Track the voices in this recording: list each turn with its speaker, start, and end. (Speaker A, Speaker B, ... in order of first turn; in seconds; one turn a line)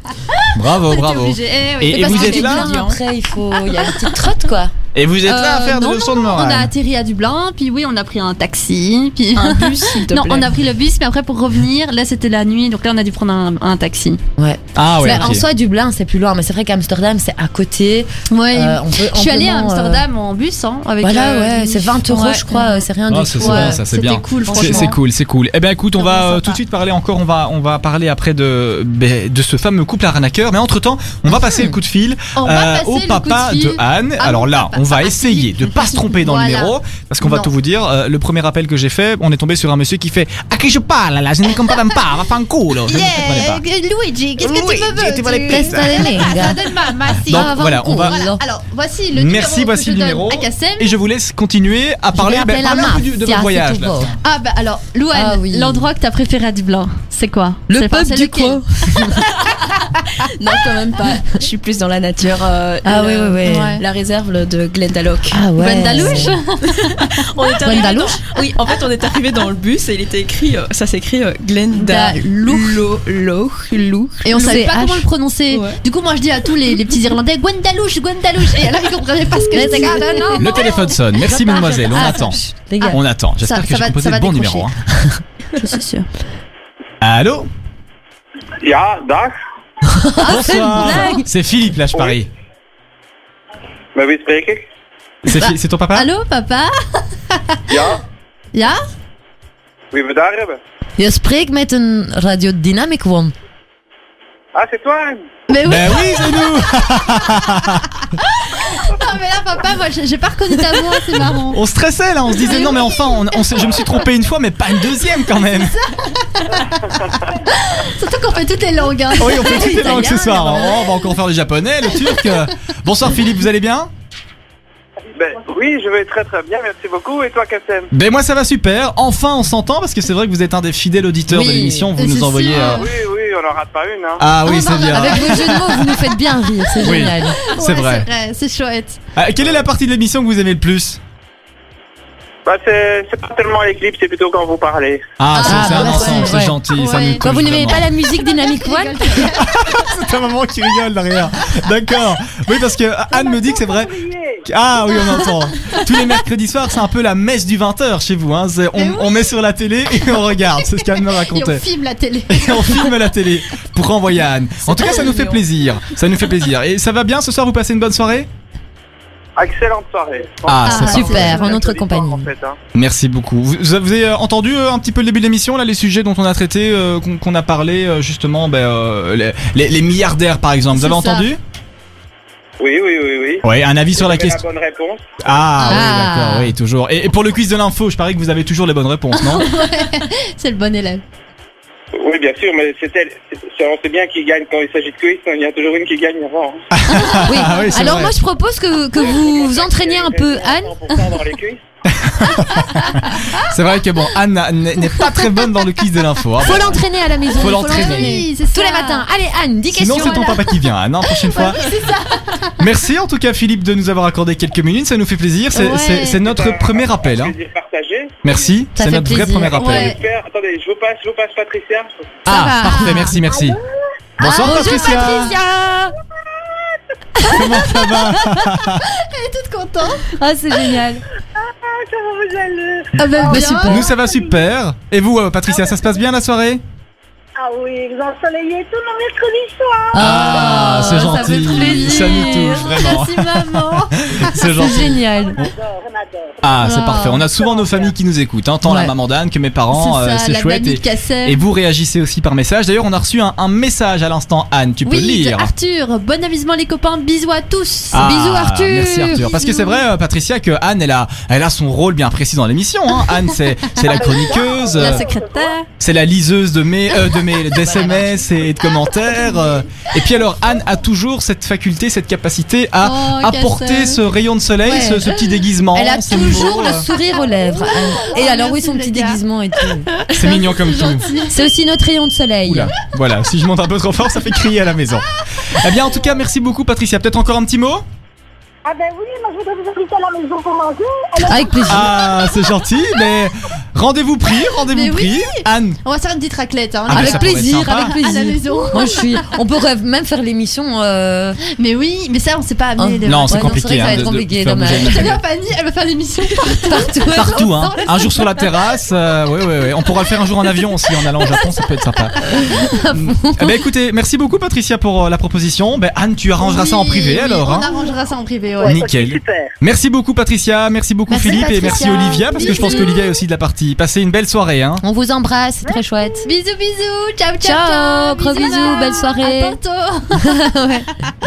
Speaker A: 0.3-2.9
Speaker B: 0.5-2.7
Speaker C: 1.9-4.7
Speaker D: 2.5-2.9
Speaker B: 4.9-6.7
Speaker A: 5.3-14.2
Speaker D: 9.4-10.5
Speaker C: 14.4-20.1
Speaker B: 14.8-15.4
Speaker A: 15.0-15.4
Speaker A: 18.3-22.9
Speaker C: 21.0-23.8
Speaker B: 23.1-43.6
Speaker A: 23.4-25.0
Speaker C: 24.4-25.0
Speaker A: 26.0-26.6
Speaker C: 31.3-31.8
Speaker A: 32.4-37.5
Speaker A: 42.9-51.0
Speaker B: 44.4-46.3
Speaker C: 45.5-46.7
Speaker C: 47.2-48.4
Speaker B: 47.3-48.2
Speaker B: 49.1-54.1
Speaker C: 52.1-54.1
Speaker A: 54.2-59.1
Speaker C: 55.1-55.9
Speaker C: 57.7-59.3
Speaker D: 60.2-74.6
Speaker C: 62.8-63.8
Speaker A: 63.4-63.8
Speaker C: 65.3-66.3
Speaker A: 65.6-67.2
Speaker C: 67.6-68.2
Speaker A: 71.8-72.8
Speaker A: 74.2-80.9
Speaker C: 74.3-75.1
Speaker D: 75.5-75.8
Speaker C: 79.5-83.0
Speaker B: 80.4-82.4
Speaker A: 81.9-82.3
Speaker A: 82.8-84.7
Speaker B: 82.9-84.7
Speaker C: 84.9-85.2
Speaker A: 85.6-86.1
Speaker B: 87.0-87.5
Speaker E: 88.6-89.3
Speaker C: 89.9-91.3
Speaker A: 90.2-91.2
Speaker B: 90.2-92.3
Speaker E: 94.0-94.7
Speaker B: 95.2-96.1
Speaker A: 95.9-97.6
Speaker E: 97.7-98.0
Speaker A: 98.5-98.8
Speaker E: 99.9-100.6
Speaker C: 101.0-103.3
Speaker E: 104.5-105.2
Speaker A: 105.5-106.5
Speaker B: 105.7-107.9
Speaker A: 108.1-111.6
Speaker B: 111.5-115.8
Speaker A: 112.4-113.8
Speaker A: 115.4-121.1
Speaker B: 119.2-123.9
Speaker C: 119.5-120.5
Speaker A: 121.9-122.4
Speaker E: 125.2-127.9
Speaker B: 127.9-132.8
Speaker C: 131.3-131.9
Speaker A: 132.0-132.9
Speaker E: 132.5-134.2
Speaker B: 134.2-136.0
Speaker A: 134.4-136.0
Speaker C: 134.7-137.4
Speaker B: 136.8-138.1
Speaker A: 136.8-139.0
Speaker B: 139.2-141.0
Speaker E: 142.4-145.1
Speaker B: 145.2-147.9
Speaker A: 145.3-147.2
Speaker C: 145.4-149.3
Speaker A: 148.1-149.6
Speaker B: 149.2-153.9
Speaker F: 153.1-154.5
Speaker B: 154.4-161.6
Speaker A: 154.9-156.0
Speaker A: 158.8-159.3
Speaker A: 160.1-163.1
Speaker B: 162.3-168.3
Speaker A: 164.7-165.4
Speaker E: 169.4-172.6
Speaker B: 170.5-171.5
Speaker A: 170.7-171.6
Speaker C: 170.7-172.3
Speaker B: 172.7-181.4
Speaker A: 180.7-181.3
Speaker E: 182.6-185.2
Speaker B: 183.4-184.4
Speaker B: 185.2-189.5
Speaker C: 185.6-186.6
Speaker A: 189.2-191.0
Speaker E: 192.0-196.6
Speaker B: 196.7-198.2
Speaker C: 197.1-200.9
Speaker A: 197.1-198.0
Speaker E: 199.0-201.6
Speaker B: 201.9-206.8
Speaker A: 202.4-203.5
Speaker C: 206.4-210.4
Speaker A: 207.3-209.1
Speaker B: 207.3-208.2
Speaker B: 209.7-211.7
Speaker A: 209.9-210.4
Speaker A: 211.2-212.6
Speaker B: 212.6-217.3
Speaker A: 215.5-216.2
Speaker E: 216.1-218.4
Speaker B: 218.2-219.9
Speaker C: 218.8-219.6
Speaker A: 219.6-220.0
Speaker E: 219.6-221.9
Speaker C: 222.3-223.2
Speaker B: 222.3-223.6
Speaker F: 223.2-223.7
Speaker B: 224.2-225.3
Speaker C: 224.2-225.9
Speaker A: 224.5-225.3
Speaker A: 227.2-228.1
Speaker B: 227.2-228.8
Speaker A: 228.8-230.1
Speaker C: 230.1-231.0
Speaker F: 231.4-234.5
Speaker A: 233.0-233.9
Speaker C: 233.2-233.9
Speaker B: 233.7-236.6
Speaker F: 235.5-236.0
Speaker F: 237.4-240.1
Speaker C: 239.9-243.0
Speaker B: 240.0-245.5
Speaker A: 241.4-244.4
Speaker C: 244.3-245.5
Speaker F: 245.0-246.5
Speaker B: 246.4-255.5
Speaker C: 246.6-247.2
Speaker A: 246.6-247.2
Speaker F: 247.2-247.9
Speaker C: 248.6-248.9
Speaker A: 249.7-251.4
Speaker A: 254.8-258.1
Speaker C: 257.9-259.3
Speaker B: 257.9-265.0
Speaker A: 259.1-259.9
Speaker F: 263.9-265.6
Speaker A: 264.0-265.7
Speaker B: 265.8-276.9
Speaker A: 267.5-268.2
Speaker A: 272.8-274.0
Speaker C: 274.6-279.9
Speaker A: 275.8-276.9
Speaker F: 277.1-278.1
Speaker A: 277.5-279.2
Speaker A: 280.0-281.5
Speaker B: 280.1-281.2
Speaker C: 281.3-282.7
Speaker B: 282.5-287.9
Speaker F: 288.6-292.5
Speaker C: 291.2-292.0
Speaker B: 291.7-295.8
Speaker A: 294.6-299.3
Speaker B: 296.9-297.9
Speaker C: 296.9-301.4
Speaker A: 301.6-308.9
Speaker C: 302.8-305.1
Speaker B: 303.1-305.2
Speaker C: 306.4-307.7
Speaker B: 307.1-312.2
Speaker A: 309.9-312.7
Speaker C: 312.2-313.6
Speaker B: 312.9-317.8
Speaker A: 316.4-318.8
Speaker F: 318.6-319.5
Speaker B: 318.6-324.8
Speaker A: 321.1-323.0
Speaker C: 322.1-322.9
Speaker C: 324.8-326.3
Speaker F: 325.7-326.1
Speaker A: 326.2-330.8
Speaker C: 327.4-329.6
Speaker C: 330.2-330.8